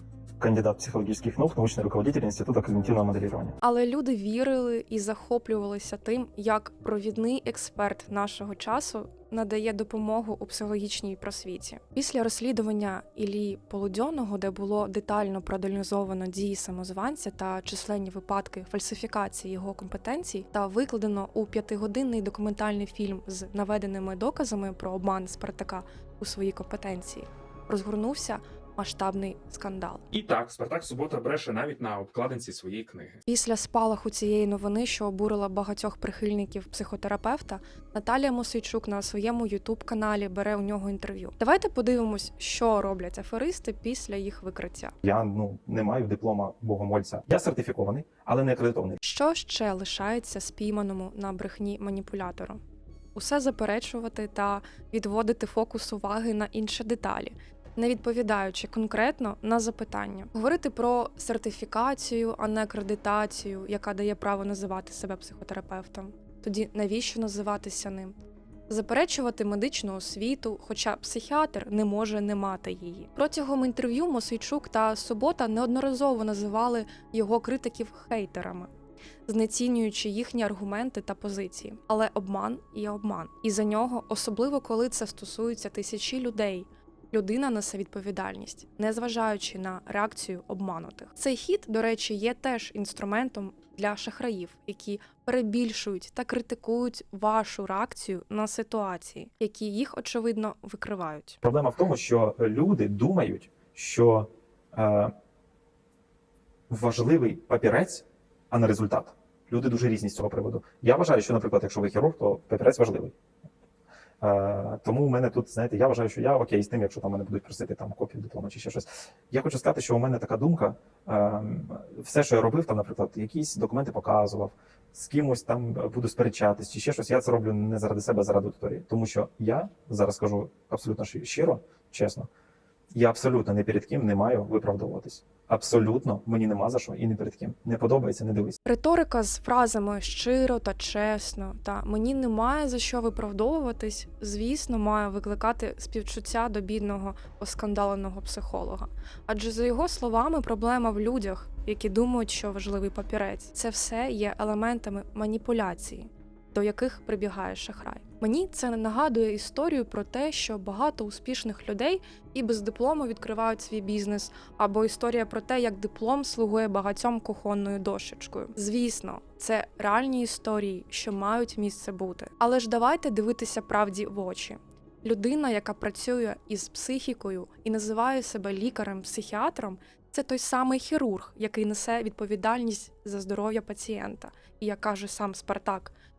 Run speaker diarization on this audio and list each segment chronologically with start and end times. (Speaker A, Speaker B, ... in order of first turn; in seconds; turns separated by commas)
Speaker A: 0.4-3.5, Speaker B: 3.6-30.1, Speaker C: 30.1-33.2, Speaker B: 33.2-44.9, Speaker A: 45.0-49.0, Speaker B: 49.0-52.6, Speaker B: 53.1-68.1, Speaker B: 68.7-78.7, Speaker B: 79.3-101.4, Speaker A: 101.4-105.1, Speaker A: 106.7-113.1, Speaker A: 114.2-132.3, Speaker A: 132.9-138.6, Speaker B: 138.6-185.9